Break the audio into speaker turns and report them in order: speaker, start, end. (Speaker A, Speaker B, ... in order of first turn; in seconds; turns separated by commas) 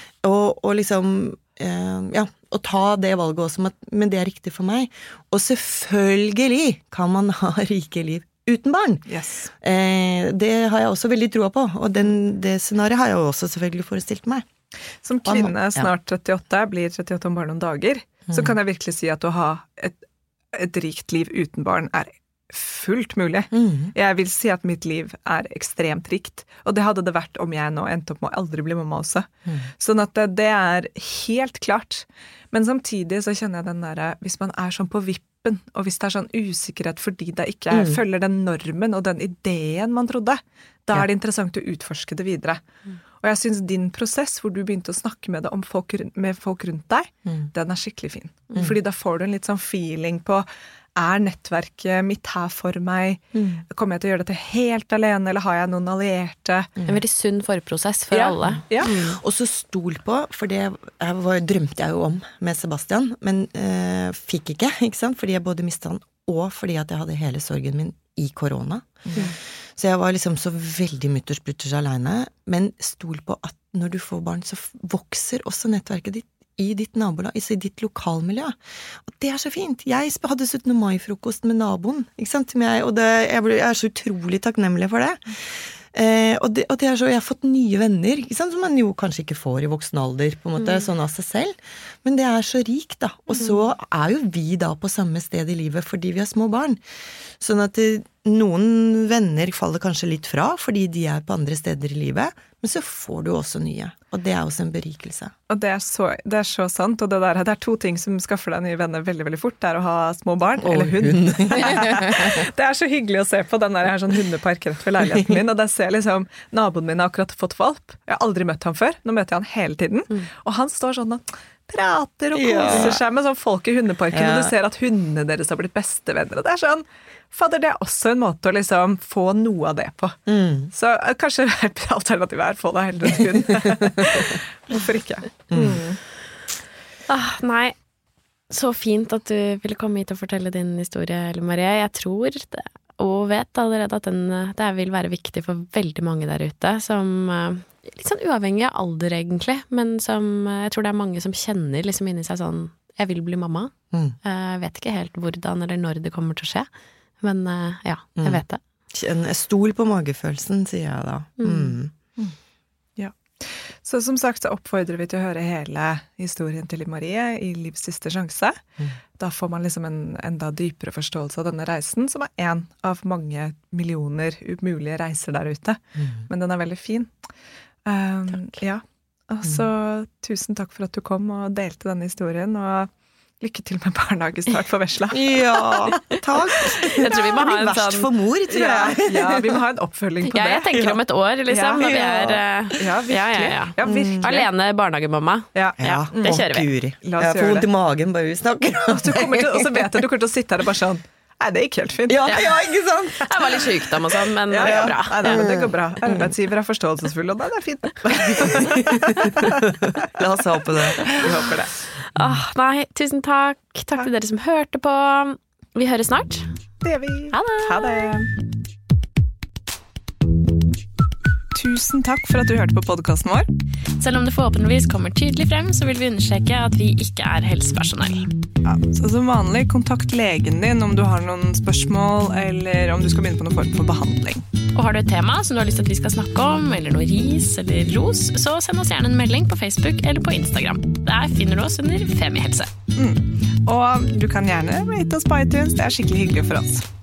Speaker A: 0.2-9.1, Speaker B: 9.1-9.5, Speaker A: 9.6-14.5, Speaker B: 15.0-20.0, Speaker A: 15.2-15.9, Speaker A: 18.3-18.6, Speaker B: 20.5-42.6, Speaker A: 23.5-23.9, Speaker A: 37.7-38.0, Speaker B: 43.2-56.7, Speaker A: 53.3-53.6, Speaker C: 56.9-59.2, Speaker B: 58.1-59.0, Speaker A: 58.5-96.8, Speaker B: 69.1-69.4, Speaker A: 97.4-105.3, Speaker B: 105.5-136.0, Speaker A: 110.6-112.5, Speaker A: 115.0-115.4, Speaker A: 122.3-123.0, Speaker A: 124.1-124.5, Speaker A: 130.3-130.7, Speaker A: 133.6-134.4, Speaker A: 135.5-135.8, Speaker C: 137.1-137.8, Speaker C: 138.5-156.7, Speaker C: 157.2-158.6, Speaker A: 158.2-161.9, Speaker C: 161.4-161.8, Speaker B: 163.0-168.6, Speaker B: 169.2-177.1, Speaker A: 176.0-176.3, Speaker B: 177.9-187.0, Speaker A: 185.1-189.6, Speaker C: 186.8-188.1, Speaker B: 188.5-194.5, Speaker C: 190.2-196.7, Speaker A: 192.0-192.3, Speaker A: 193.8-194.3, Speaker B: 195.6-196.4, Speaker A: 195.8-200.0, Speaker B: 197.0-197.7, Speaker B: 198.9-202.7, Speaker A: 202.1-203.7, Speaker C: 203.1-205.2, Speaker B: 204.5-209.7, Speaker A: 204.6-206.3, Speaker A: 208.2-211.4, Speaker B: 211.1-211.7, Speaker C: 212.2-216.5, Speaker B: 216.8-218.3, Speaker C: 217.3-218.2, Speaker B: 221.6-223.5, Speaker C: 224.0-228.3, Speaker B: 228.6-234.4, Speaker C: 234.7-242.7, Speaker B: 243.0-246.9